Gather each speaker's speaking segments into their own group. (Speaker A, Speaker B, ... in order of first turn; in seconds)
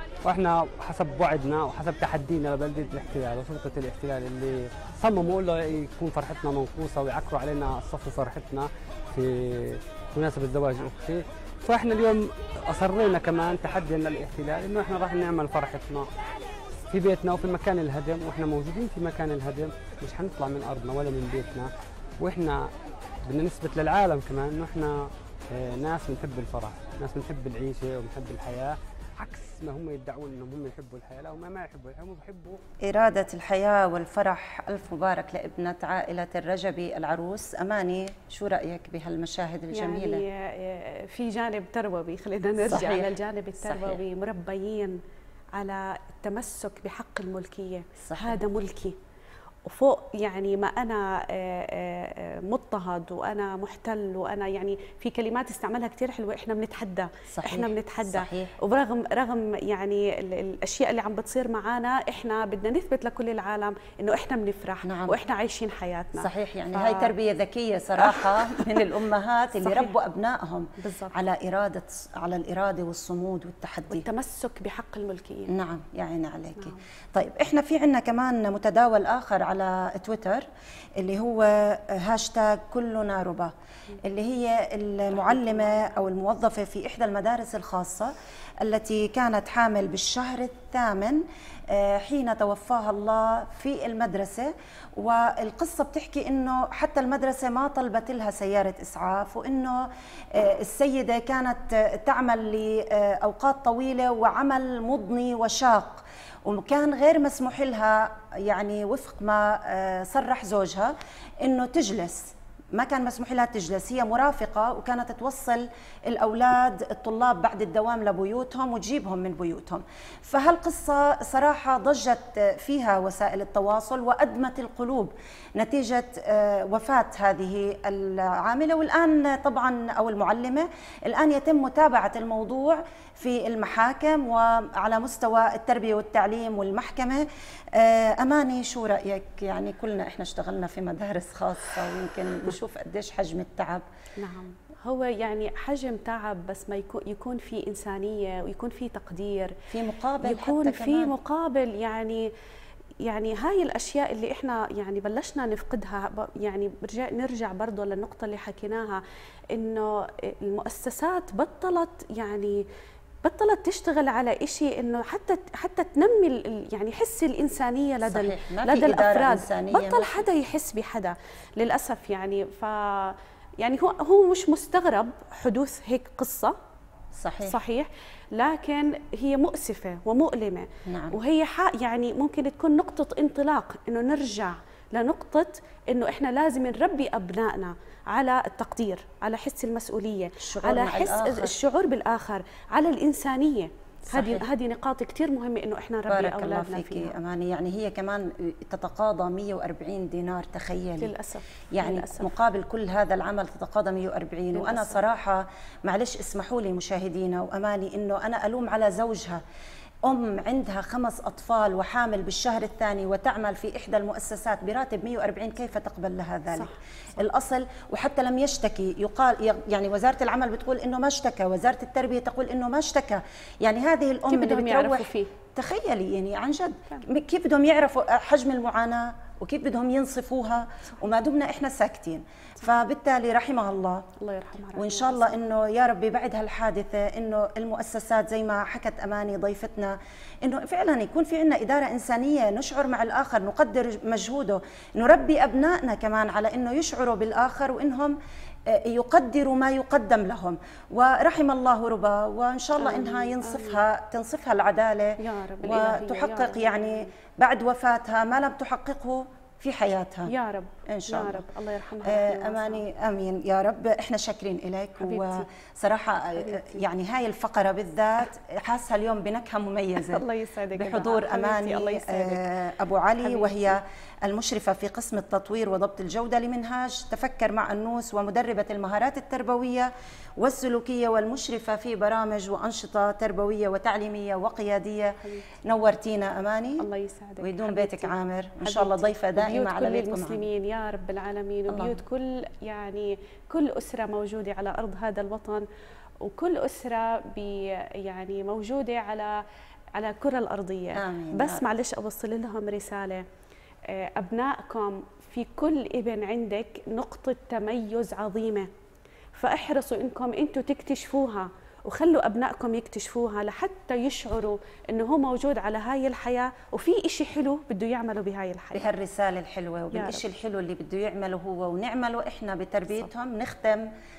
Speaker A: 0.2-16.1, 16.9-22.7, 23.3-32.6
Speaker B: 32.8-40.2, 42.6-44.0, 48.0-48.4, 57.3-58.5, 64.8-65.2, 66.2-74.1, 75.5-80.5, 81.0-110.9, 111.4-143.8, 149.7-151.1, 168.0-170.2, 177.2-177.6, 180.9-181.2, 190.4-191.6, 194.1-194.5, 196.1-201.1, 201.7-209.4, 210.1-234.1, 234.8-248.2, 248.7-260.3, 260.9-261.4, 262.0-286.9, 287.4-290.4, 291.7-292.0, 301.0-301.6, 318.7-323.9
Speaker C: 39.7-45.0, 45.6-49.0, 49.6-67.1, 68.0-68.8, 69.6-69.9, 70.8-71.2, 73.9-75.5, 85.1-86.0, 144.2-149.6, 150.2-152.3, 153.0-159.0, 159.5-162.7, 163.2-176.6, 177.4-197.1, 201.0-202.3, 204.6-205.0, 224.3-225.3, 234.2-235.4, 252.8-253.8, 255.2-257.1, 260.3-262.8, 265.0-265.5, 266.4-266.8, 270.0-272.4, 273.2-273.8, 285.2-285.5, 286.8-295.6, 296.2-299.4, 300.0-303.2, 303.9-308.7, 309.4-318.9, 319.9-320.2